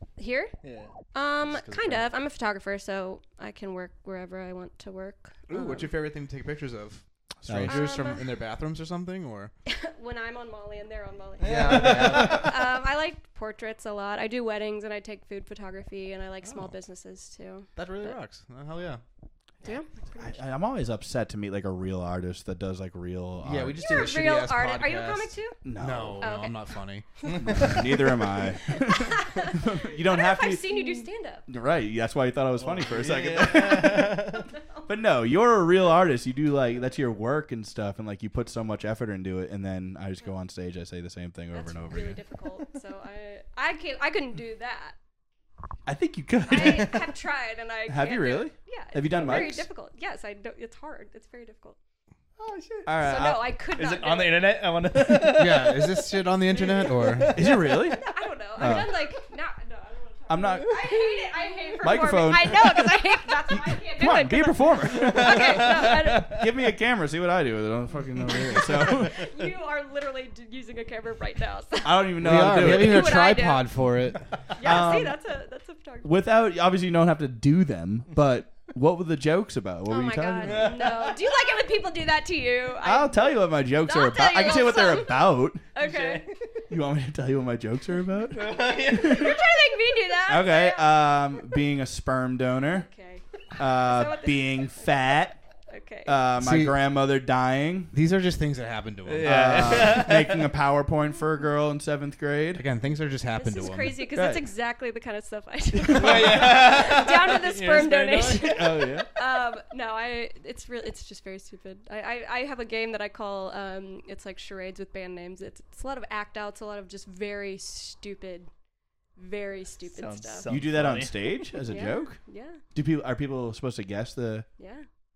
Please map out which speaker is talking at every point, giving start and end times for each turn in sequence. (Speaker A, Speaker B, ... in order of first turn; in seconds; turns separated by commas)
Speaker A: 0.2-0.5, Speaker B: 0.6-0.9, Speaker A: 1.1-5.9, Speaker B: 1.5-2.1, Speaker C: 5.5-9.5, Speaker D: 7.5-7.9, Speaker A: 7.7-8.2, Speaker A: 9.7-18.2, Speaker B: 11.4-12.5, Speaker C: 11.4-12.6, Speaker C: 16.4-16.8, Speaker C: 17.8-19.0, Speaker A: 19.6-20.4, Speaker D: 20.2-23.8, Speaker C: 23.4-27.1, Speaker A: 23.8-25.6, Speaker D: 25.6-26.3, Speaker A: 26.2-26.6, Speaker B: 27.2-28.1, Speaker D: 27.3-30.8, Speaker A: 28.7-31.4, Speaker D: 31.5-42.2, Speaker B: 32.6-34.5, Speaker A: 34.5-34.8, Speaker A: 41.5-45.0, Speaker D: 45.9-47.2, Speaker A: 46.5-51.8, Speaker D: 47.9-49.7, Speaker B: 52.4-52.9, Speaker D: 52.9-53.5, Speaker A: 53.0-54.5, Speaker B: 53.8-57.9, Speaker C: 55.2-57.4, Speaker D: 57.3-58.0, Speaker A: 57.7-66.4, Speaker D: 58.6-58.9, Speaker D: 60.3-60.8, Speaker D: 61.8-69.3, Speaker B: 65.0-66.4, Speaker A: 68.9-73.7, Speaker D: 71.8-73.3, Speaker C: 72.2-74.3, Speaker A: 74.6-76.1, Speaker D: 74.6-75.2, Speaker D: 76.0-80.7, Speaker A: 79.9-83.2, Speaker B: 80.4-81.2, Speaker D: 82.8-85.6, Speaker A: 83.8-86.2, Speaker B: 85.8-86.5, Speaker D: 86.7-89.4, Speaker B: 88.3-89.4, Speaker A: 88.9-91.2, Speaker D: 90.3-92.9, Speaker A: 92.7-94.9, Speaker D: 93.6-95.4, Speaker A: 95.7-96.2, Speaker D: 96.1-97.9, Speaker C: 96.4-96.8, Speaker C: 97.9-99.9, Speaker B: 99.1-100.4, Speaker D: 99.2-102.6, Speaker C: 102.5-104.1, Speaker A: 103.4-118.5, Speaker D: 104.2-104.4, Speaker B: 105.9-108.7, Speaker D: 106.0-106.6, Speaker D: 108.3-109.1, Speaker A: 119.2-120.5, Speaker B: 119.9-121.2, Speaker D: 120.5-122.2, Speaker A: 121.7-122.6, Speaker D: 122.7-124.5, Speaker A: 124.6-124.8